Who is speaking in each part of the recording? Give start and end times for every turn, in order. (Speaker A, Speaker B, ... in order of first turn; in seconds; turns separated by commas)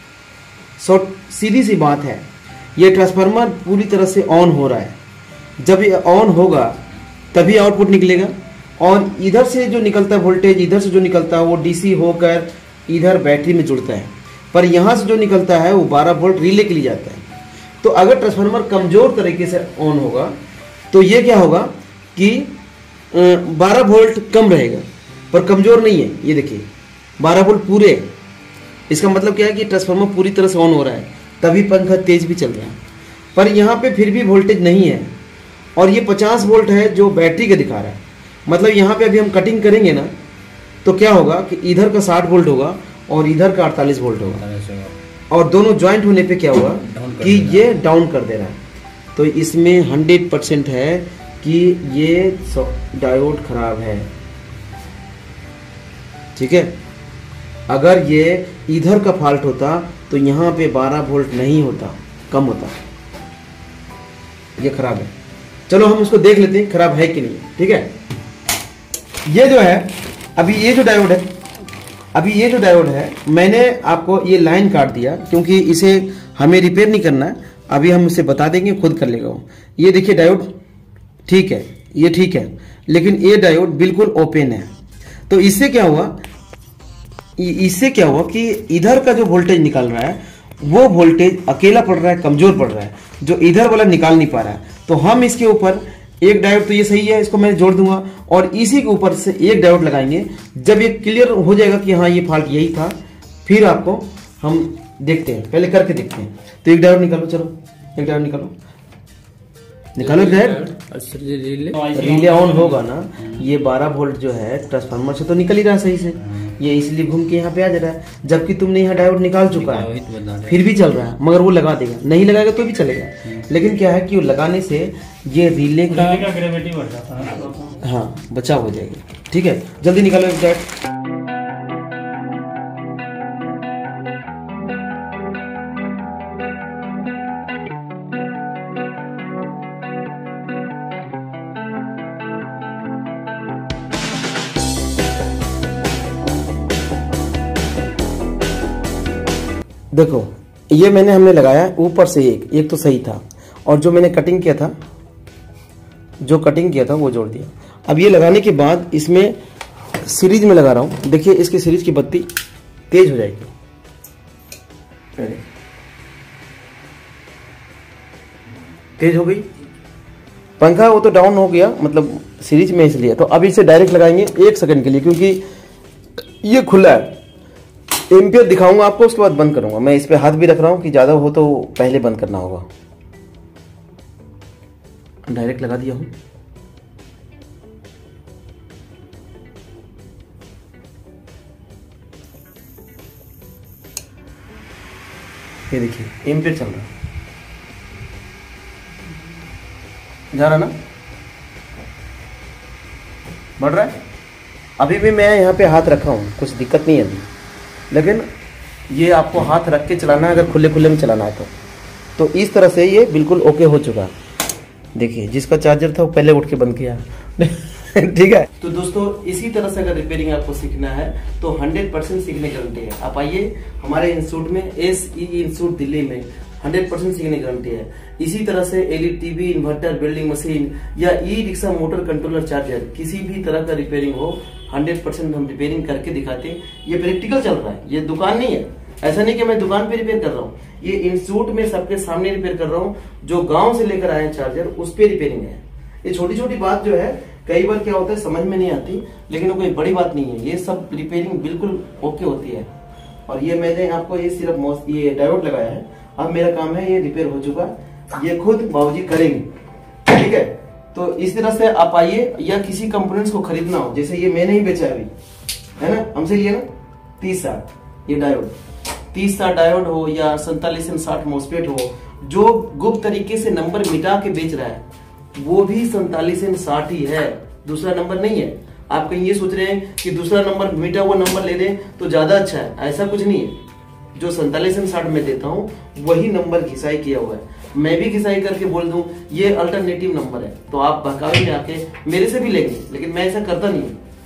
Speaker A: 0.8-5.0, Speaker A: 5.6-6.8, Speaker A: 7.3-17.3, Speaker A: 17.8-20.4, Speaker A: 20.9-22.6, Speaker A: 23.1-26.7, Speaker A: 27.2-28.1, Speaker A: 28.9-32.8, Speaker A: 33.4-35.1, Speaker A: 35.8-40.1, Speaker A: 40.8-44.4, Speaker B: 44.3-45.0, Speaker A: 45.3-48.6, Speaker B: 46.8-47.7, Speaker A: 49.1-54.1, Speaker A: 56.4-56.8, Speaker A: 57.7-62.8, Speaker A: 64.6-65.1, Speaker A: 65.7-67.9, Speaker A: 69.3-71.3, Speaker A: 72.1-80.5, Speaker A: 81.3-84.7, Speaker A: 85.3-86.2, Speaker A: 87.4-108.5, Speaker A: 110.0-110.7, Speaker B: 110.0-111.9, Speaker C: 111.8-112.8, Speaker A: 111.9-126.4, Speaker B: 119.5-120.6, Speaker C: 126.0-127.7, Speaker A: 127.8-130.7, Speaker A: 149.9-154.8, Speaker A: 156.2-159.4, Speaker A: 160.0-162.3, Speaker A: 162.9-163.5, Speaker A: 165.2-165.4, Speaker A: 169.0-169.5, Speaker A: 170.6-175.4, Speaker A: 176.4-177.2, Speaker A: 178.1-182.7, Speaker A: 185.3-186.1, Speaker A: 195.7-196.9, Speaker A: 200.3-200.8, Speaker A: 203.6-204.0, Speaker A: 204.8-207.3, Speaker A: 207.9-208.3, Speaker A: 208.9-211.5, Speaker A: 212.2-214.1, Speaker A: 214.9-252.7, Speaker A: 253.3-259.5, Speaker A: 260.1-265.1, Speaker A: 265.8-266.7, Speaker A: 267.2-268.6, Speaker A: 269.1-274.8, Speaker A: 275.4-283.6, Speaker A: 284.1-294.0